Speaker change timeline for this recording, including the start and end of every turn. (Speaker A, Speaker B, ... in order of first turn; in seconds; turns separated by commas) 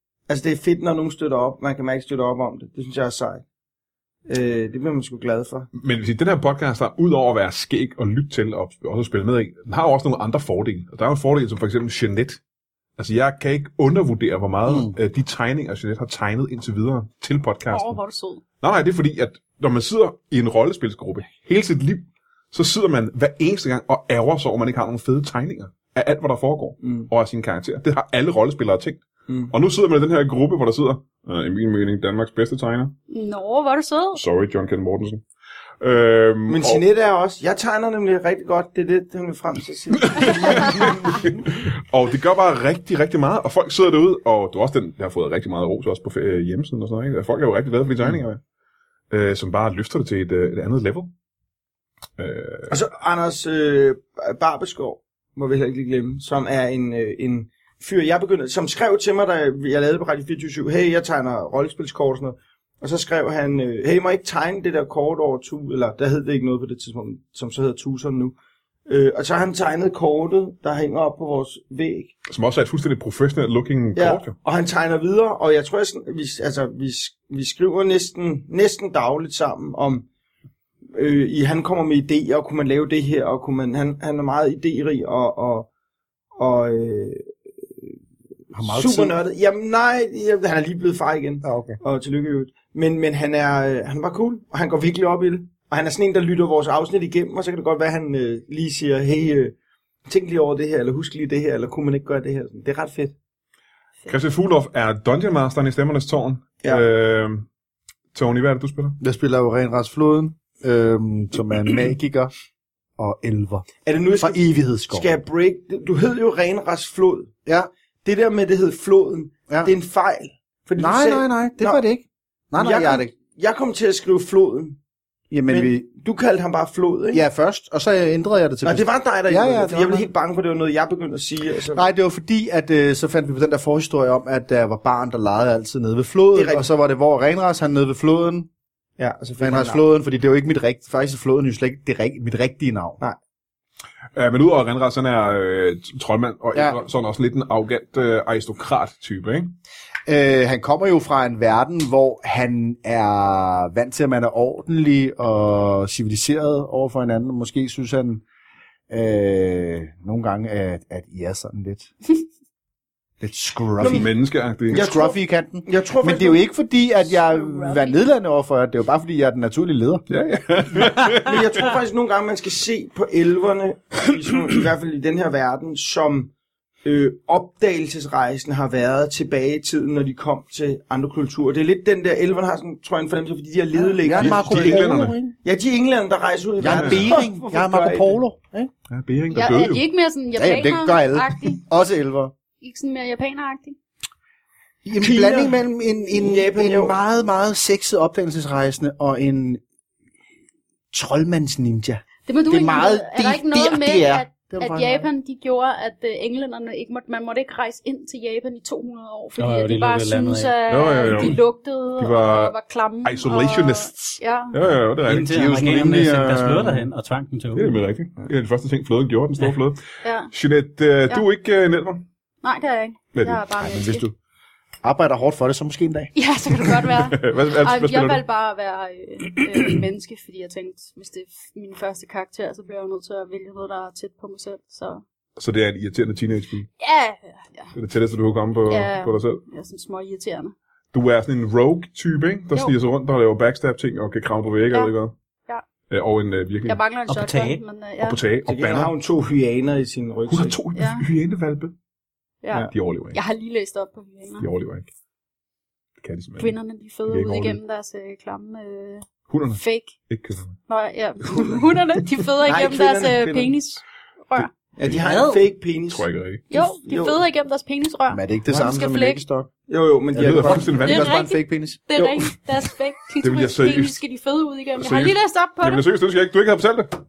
Speaker A: 0.3-3.4, Speaker A: 4.3-5.7, Speaker B: 5.7-12.4, Speaker B: 13.0-18.0, Speaker C: 17.7-18.4, Speaker B: 18.6-32.9, Speaker A: 26.8-27.1, Speaker A: 29.3-29.5, Speaker C: 33.1-34.2, Speaker B: 34.1-35.2, Speaker B: 35.8-36.8, Speaker A: 36.5-41.3, Speaker B: 40.1-48.4, Speaker B: 49.1-51.1, Speaker B: 52.2-52.8, Speaker A: 52.7-68.3, Speaker A: 68.9-72.1, Speaker B: 72.3-74.3, Speaker A: 73.9-80.1, Speaker A: 80.9-85.7, Speaker A: 86.4-87.2, Speaker D: 88.5-89.1, Speaker A: 88.6-99.5, Speaker D: 91.4-91.8, Speaker A: 100.1-103.1, Speaker B: 104.1-107.5, Speaker B: 108.1-109.0, Speaker D: 109.0-112.3, Speaker D: 113.0-113.7, Speaker A: 113.8-117.3, Speaker D: 114.2-115.2, Speaker A: 118.0-121.8, Speaker D: 120.8-123.1, Speaker A: 122.6-124.8, Speaker D: 125.3-125.9, Speaker A: 125.5-127.2, Speaker D: 127.1-130.1, Speaker A: 128.6-131.9, Speaker D: 131.7-138.5, Speaker A: 136.3-136.7, Speaker A: 139.0-139.8, Speaker D: 139.4-143.0, Speaker B: 144.2-149.6, Speaker D: 150.1-158.2, Speaker D: 158.9-161.9, Speaker D: 163.2-164.1, Speaker A: 163.8-164.1, Speaker B: 163.8-164.8, Speaker A: 164.7-166.4, Speaker D: 164.7-170.1, Speaker C: 167.4-167.8, Speaker B: 170.1-171.4, Speaker A: 171.2-176.3, Speaker A: 176.8-184.8, Speaker D: 183.9-185.3, Speaker B: 184.1-185.2, Speaker A: 185.4-188.2, Speaker D: 186.6-188.7, Speaker B: 186.7-187.1, Speaker B: 188.9-189.8, Speaker C: 189.3-191.6, Speaker D: 190.3-192.3, Speaker C: 192.6-193.8, Speaker D: 194.8-199.6, Speaker A: 195.0-197.0, Speaker D: 200.9-205.1, Speaker C: 202.2-214.6, Speaker E: 209.4-210.6, Speaker B: 210.7-211.4, Speaker B: 212.0-215.6, Speaker E: 215.1-217.8, Speaker D: 215.3-216.9, Speaker B: 217.5-222.1, Speaker C: 220.0-220.3, Speaker C: 222.4-224.1, Speaker B: 223.1-223.4, Speaker D: 223.6-224.1, Speaker D: 224.8-226.1, Speaker C: 226.1-235.0, Speaker B: 227.0-228.2, Speaker B: 235.4-236.7, Speaker C: 236.8-237.7, Speaker B: 237.7-239.4, Speaker C: 238.7-240.5, Speaker B: 240.9-245.1, Speaker B: 245.9-246.8, Speaker C: 246.7-248.2, Speaker E: 247.1-247.6, Speaker B: 248.0-248.9, Speaker A: 248.4-250.6, Speaker B: 250.3-251.7, Speaker C: 250.7-251.1, Speaker C: 252.4-254.5, Speaker B: 252.7-253.2, Speaker B: 254.4-254.9, Speaker B: 256.0-257.6, Speaker C: 256.4-259.9, Speaker B: 259.3-260.6, Speaker C: 260.7-264.5, Speaker A: 262.4-263.6, Speaker A: 264.7-267.2, Speaker E: 265.0-265.5, Speaker B: 265.9-266.4, Speaker C: 266.5-269.2, Speaker D: 268.1-269.5, Speaker A: 269.7-270.8, Speaker D: 270.1-271.8, Speaker B: 270.1-271.2, Speaker C: 270.8-275.8, Speaker A: 271.9-272.3, Speaker B: 273.2-274.0, Speaker B: 274.8-277.0